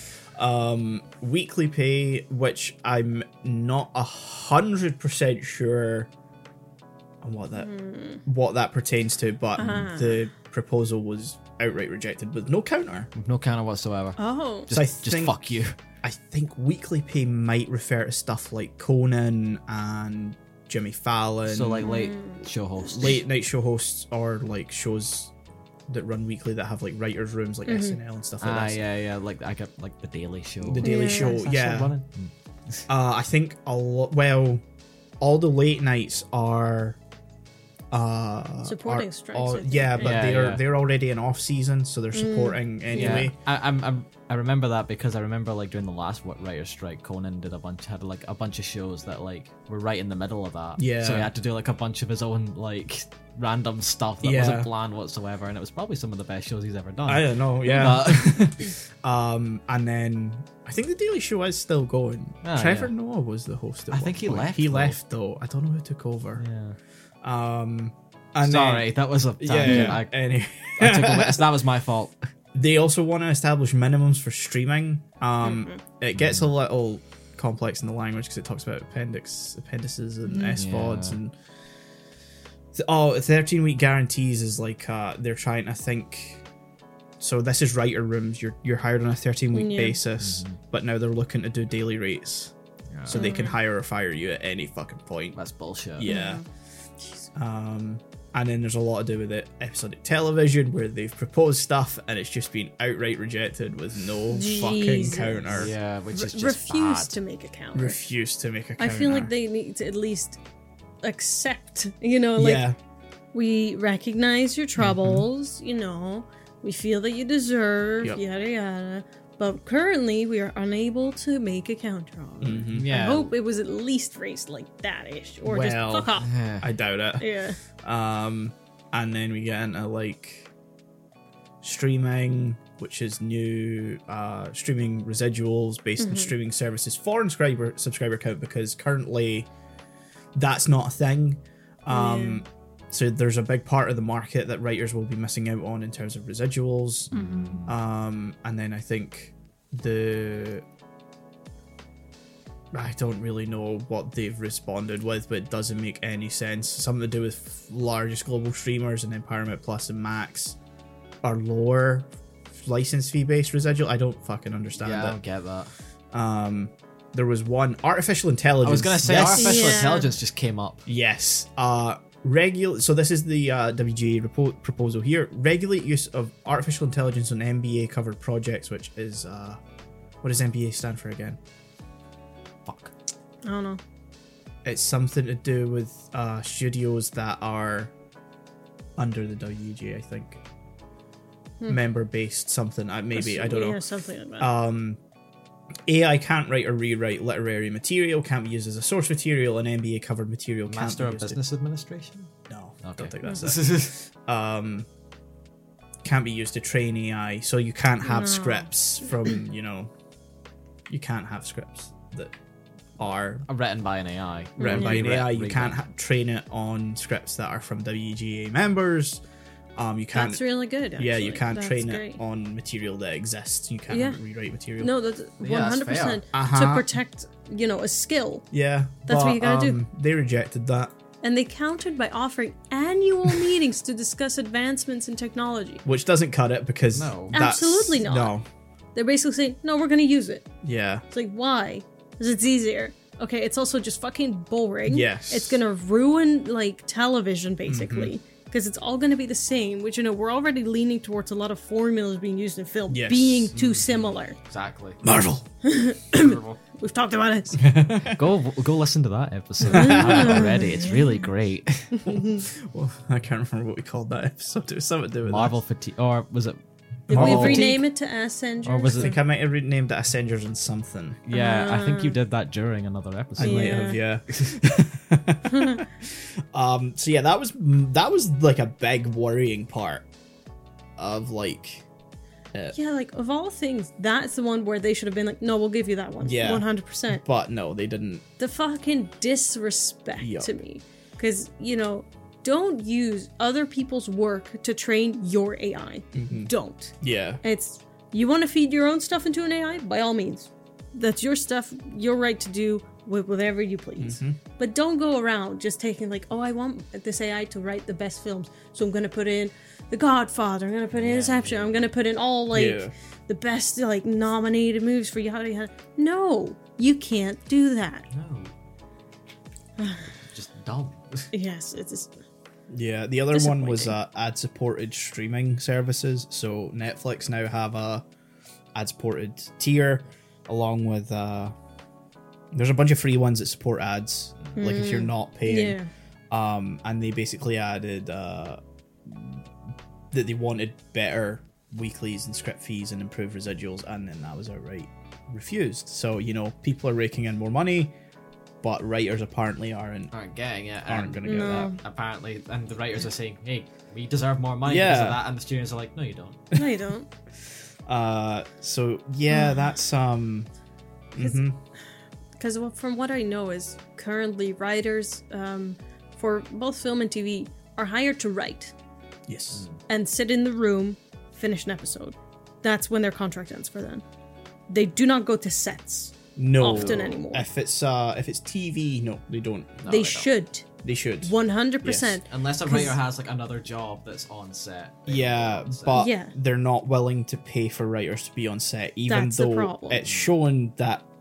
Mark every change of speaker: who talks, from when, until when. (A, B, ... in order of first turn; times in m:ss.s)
0:00.4-0:06.1 A
0:07.2-0:07.7 A
0:07.5-0:08.2 B
0:08.2-0:13.1 A
0:09.6-0:10.2 B
0:13.1-0:15.8 C
0:14.2-0:14.7 B
0:14.7-0:15.4 A
0:16.0-0:21.9 A
0:21.4-0:23.2 C
0:21.8-0:22.5 B
0:22.9-0:25.3 A
0:25.9-0:28.8 A
0:27.6-0:28.0 B
0:28.4-0:32.8 C
0:30.6-0:31.9 A
0:30.8-0:31.4 B
0:32.9-0:34.6 A
0:35.2-0:37.0 A
0:37.9-0:43.4 A
0:38.6-0:40.1 B
0:40.0-0:40.6 C
0:42.1-0:43.3 B
0:42.9-0:58.6 C
0:50.8-0:51.3 A
0:54.2-0:54.7 A
0:57.1-1:06.4 A
1:02.4-1:02.9 C
1:03.9-1:05.0 C
1:06.4-1:06.8 C
1:07.2-1:11.4 A
1:08.4-1:10.1 C
1:09.6-1:10.0 B
1:10.8-1:12.2 C
1:12.5-1:21.3 A
1:15.4-1:15.8 B
1:16.2-1:16.5 C
1:20.3-1:20.6 B
1:20.5-1:21.2 C
1:22.7-1:26.4 A
1:27.2-1:32.5 A
1:29.5-1:30.0 B
1:30.2-1:30.6 C
1:32.9-1:33.4 C
1:33.0-1:35.4 A
1:33.1-1:33.5 B
1:35.3-1:36.1 C
1:36.0-1:36.4 A
1:36.0-1:36.4 B
1:37.0-1:37.3 B
1:37.3-1:45.7 A
1:44.3-1:45.6 B
1:45.5-1:47.1 C
1:46.1-1:48.0 B
1:47.7-1:49.3 A
1:48.8-1:50.4 B
1:51.0-1:52.7 B
1:52.4-1:52.8 A
1:53.3-2:06.3 B
1:54.8-1:55.2 A
2:02.4-2:02.9 A
2:02.7-2:03.3 C
2:05.4-2:07.2 A
2:06.2-2:06.7 C
2:07.2-2:07.6 B
2:07.8-2:10.5 A
2:11.6-2:19.5 A
2:16.0-2:16.3 B
2:20.4-2:30.6 A
2:21.9-2:22.4 B
2:27.1-2:27.8 C
2:32.7-2:40.6 A
2:41.2-2:45.2 A
2:44.8-2:45.7 C
2:46.1-2:49.9 A
2:48.6-2:50.8 C
2:49.3-2:50.1 B
2:50.9-2:59.6 A
3:00.2-3:01.4 A
3:02.6-3:02.9 C
3:03.4-3:03.8 B
3:04.6-3:07.9 A
3:09.0-3:10.4 A
3:11.7-3:13.8 A
3:13.1-3:14.5 B
3:14.4-3:15.0 A
3:15.8-3:21.4 A
3:20.7-3:22.3 C
3:22.5-3:24.9 A
3:22.8-3:24.1 C
3:26.0-3:29.9 A
3:28.0-3:28.7 B
3:30.9-3:32.4 A
3:33.0-3:33.4 A
3:33.5-3:35.8 C
3:34.6-3:35.0 B
3:34.6-3:39.2 A
3:39.8-3:44.9 A
3:40.1-3:42.2 B
3:43.9-3:44.2 B
3:44.8-3:48.4 B
3:45.4-3:46.2 C
3:46.3-3:46.9 A
3:48.5-3:50.9 A
3:49.1-3:49.8 B
3:51.2-3:55.8 B
3:55.8-3:58.4 A
3:56.9-3:57.4 C
3:57.3-3:58.3 B
3:58.9-4:00.5 B
4:00.6-4:01.0 A
4:01.1-4:14.4 B
4:04.9-4:05.6 A
4:07.6-4:08.1 A
4:12.9-4:13.5 A
4:13.5-4:15.0 C
4:15.0-4:15.4 A
4:15.6-4:17.6 B
4:16.1-4:16.6 C
4:17.6-4:18.3 A
4:18.0-4:22.0 C
4:19.7-4:21.2 B
4:19.7-4:20.6 A
4:21.9-4:22.4 B
4:22.1-4:25.6 A
4:25.3-4:26.6 C
4:27.1-4:27.8 C
4:27.1-4:27.8 A
4:27.1-4:29.2 B
4:28.6-4:29.1 C
4:28.9-4:31.2 A
4:31.2-4:34.5 C
4:31.3-4:32.2 B
4:33.4-4:40.1 A
4:33.4-4:34.0 B
4:35.5-4:35.8 B
4:41.0-4:41.8 A
4:42.7-4:47.2 B
4:46.2-4:48.2 A
4:48.4-5:18.1 B
4:50.2-4:50.5 A
4:56.1-4:57.4 A
5:04.0-5:04.4 A
5:10.9-5:11.9 C
5:12.5-5:12.9 A
5:18.1-5:18.5 C
5:19.8-5:20.1 B
5:20.3-5:21.3 C
5:21.3-5:22.2 B
5:22.7-5:28.0 A
5:23.3-5:23.9 B
5:28.7-5:31.5 A
5:32.5-5:35.8 A
5:34.5-5:35.9 B
5:36.3-5:39.5 A
5:40.1-5:47.9 A
5:48.6-5:50.1 A
5:50.1-5:56.4 C
5:50.8-5:51.7 A
5:51.2-5:51.8 B
5:54.6-5:55.2 A
5:56.5-5:57.1 B
5:57.9-6:00.5 A
5:59.3-5:59.6 B
6:01.1-6:01.6 A
6:02.4-6:08.7 B
6:09.3-6:09.6 A
6:09.9-6:14.0 B
6:14.7-6:17.4 B
6:16.4-6:19.8 A
6:16.7-6:17.0 C
6:19.8-6:20.3 C
6:19.9-6:20.6 B
6:20.8-6:22.2 A
6:21.2-6:22.9 B
6:22.2-6:26.0 C
6:25.1-6:31.0 A
6:25.9-6:26.3 B
6:29.1-6:30.0 B
6:30.0-6:30.4 C